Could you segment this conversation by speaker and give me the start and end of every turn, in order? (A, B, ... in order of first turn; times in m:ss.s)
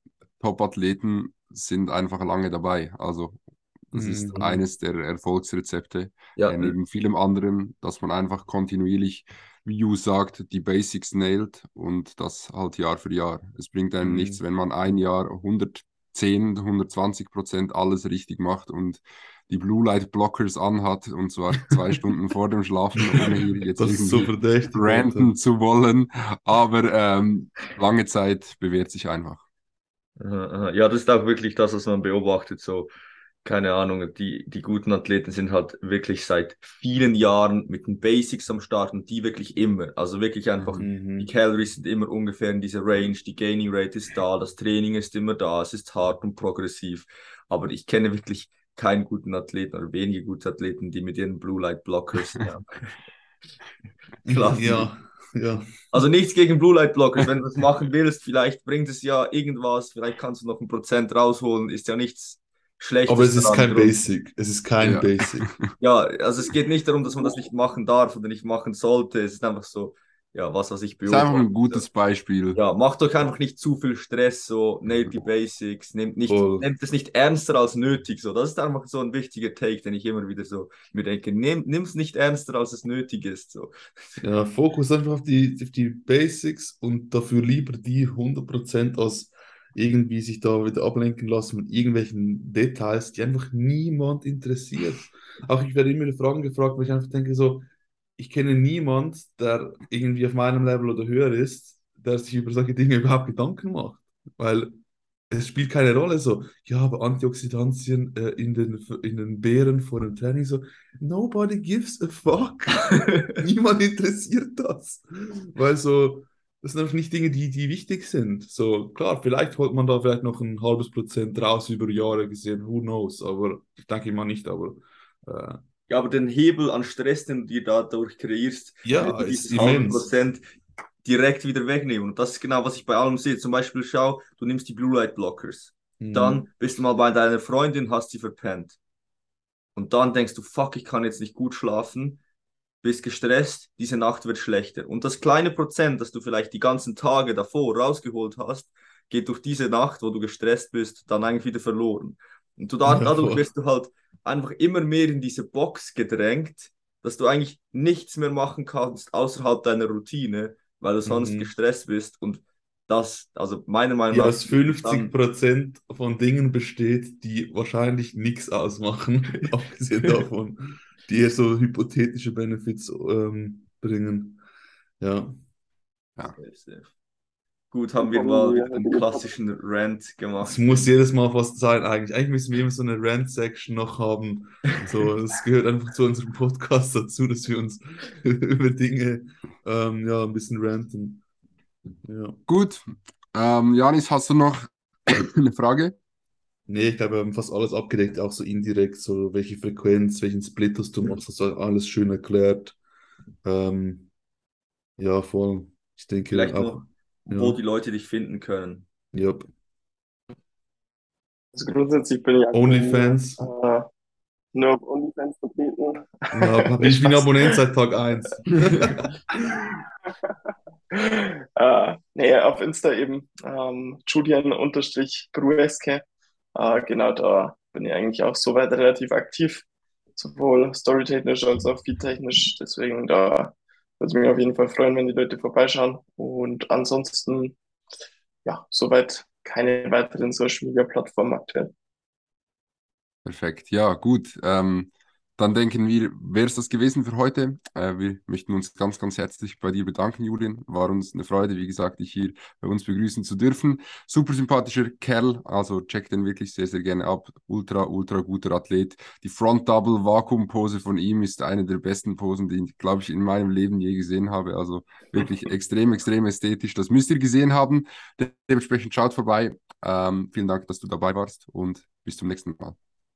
0:00.4-0:29.4 A
0:03.9-0:04.6 B
0:06.4-0:06.8 C
0:14.0-0:14.4 B
0:23.1-0:25.3 B
0:30.2-0:32.9 C
0:33.4-0:52.9 C
0:40.8-0:41.3 B
0:54.2-0:54.9 C
0:54.3-0:55.7 B
0:55.9-1:04.0 C
1:03.1-1:05.5 B
1:04.8-1:05.6 A
1:05.8-1:11.8 C
1:11.1-1:12.6 A
1:12.5-1:24.2 C
1:16.3-1:16.7 B
1:24.2-1:44.8 B
1:45.3-2:05.6 B
1:53.0-1:53.3 C
2:05.9-2:10.4 C
2:08.8-2:10.1 B
2:11.0-2:18.8 C
2:16.0-2:16.5 B
2:19.8-2:22.2 C
2:22.8-2:45.1 C
2:32.9-2:33.5 B
2:41.1-2:41.5 B
2:44.1-2:54.4 B
2:55.0-2:55.4 B
2:56.4-2:56.9 C
2:57.7-3:00.9 C
2:58.0-2:59.3 D
3:00.4-3:11.2 B
3:12.0-3:12.4 B
3:12.5-3:16.0 A
3:16.7-3:22.8 B
3:23.4-3:24.1 B
3:25.0-3:27.6 B
3:26.3-3:28.9 C
3:29.1-3:29.5 B
3:31.5-3:33.9 D
3:32.5-3:33.5 B
3:34.5-3:37.6 D
3:36.3-3:39.1 B
3:38.5-3:39.0 C
3:40.9-3:46.0 D
3:46.6-3:57.6 D
3:58.4-4:01.7 D
4:03.2-4:32.8 A